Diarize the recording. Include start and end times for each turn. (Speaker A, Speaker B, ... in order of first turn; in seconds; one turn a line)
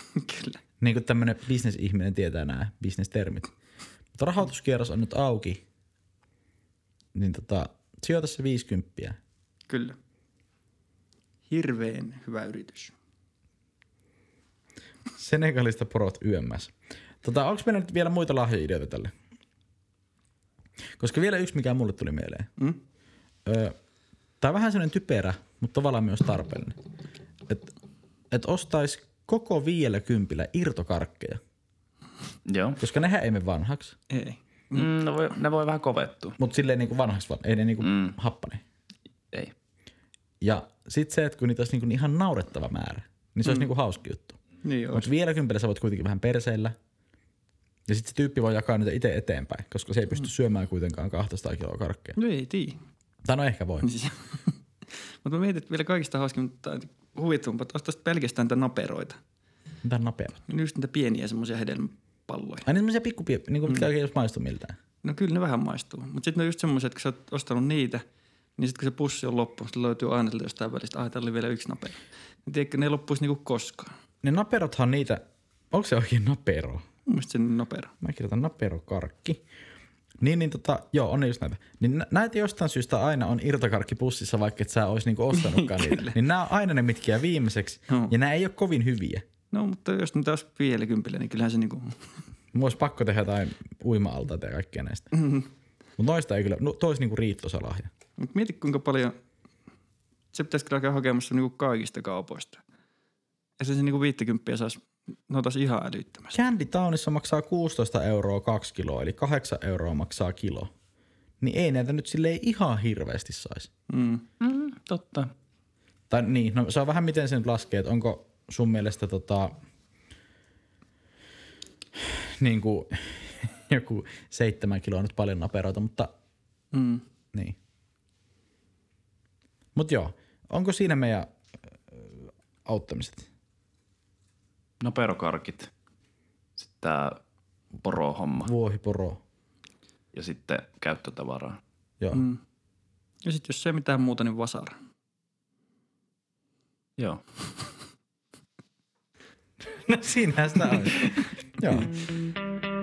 Speaker A: 0.1-0.6
Speaker B: 0.8-3.5
Speaker B: 4.2-5.6
Speaker B: 7.1-9.2
Speaker A: 9.7-10.0
Speaker A: 11.5-12.9
Speaker B: 15.2-19.1
Speaker B: 21.0-22.5
Speaker B: 23.4-23.7
Speaker B: 24.4-26.7
Speaker B: 28.3-31.4
Speaker C: 32.5-32.8
Speaker B: 32.8-34.0
Speaker A: 34.1-34.9
Speaker C: 34.7-36.4
Speaker B: 36.4-38.6
Speaker C: 37.8-38.1
Speaker B: 40.4-44.4
Speaker A: 43.4-43.7
Speaker A: 44.6-45.1
Speaker B: 44.9-46.7
Speaker B: 47.9-52.2
Speaker A: 52.2-52.8
Speaker B: 53.2-53.9
Speaker A: 53.8-54.5
Speaker A: 55.2-59.2
Speaker B: 59.8-60.4
Speaker A: 60.5-62.6
Speaker B: 62.6-64.8
Speaker A: 65.0-68.0
Speaker A: 68.6-73.9
Speaker B: 74.2-76.8
Speaker A: 77.0-77.9
Speaker B: 78.0-79.4
Speaker B: 80.2-89.2
Speaker A: 85.3-86.2
Speaker A: 89.5-92.0
Speaker B: 92.5-95.1
Speaker A: 95.1-95.5
Speaker B: 96.0-97.9
Speaker A: 98.2-99.1
Speaker A: 100.3-102.6
Speaker A: 103.6-106.3
Speaker B: 106.3-110.7
Speaker B: 111.4-113.7
Speaker A: 113.9-114.2
Speaker C: 114.4-115.3
Speaker B: 116.1-119.5
Speaker B: 122.0-126.1
Speaker A: 126.7-127.0
Speaker B: 129.8-131.3
Speaker B: 131.9-133.3
Speaker C: 134.8-135.7
Speaker C: 136.6-137.2
Speaker C: 137.8-138.5
Speaker B: 138.4-139.2
Speaker C: 140.1-141.6
Speaker A: 142.1-142.4
Speaker A: 143.2-144.8
Speaker B: 149.9-151.9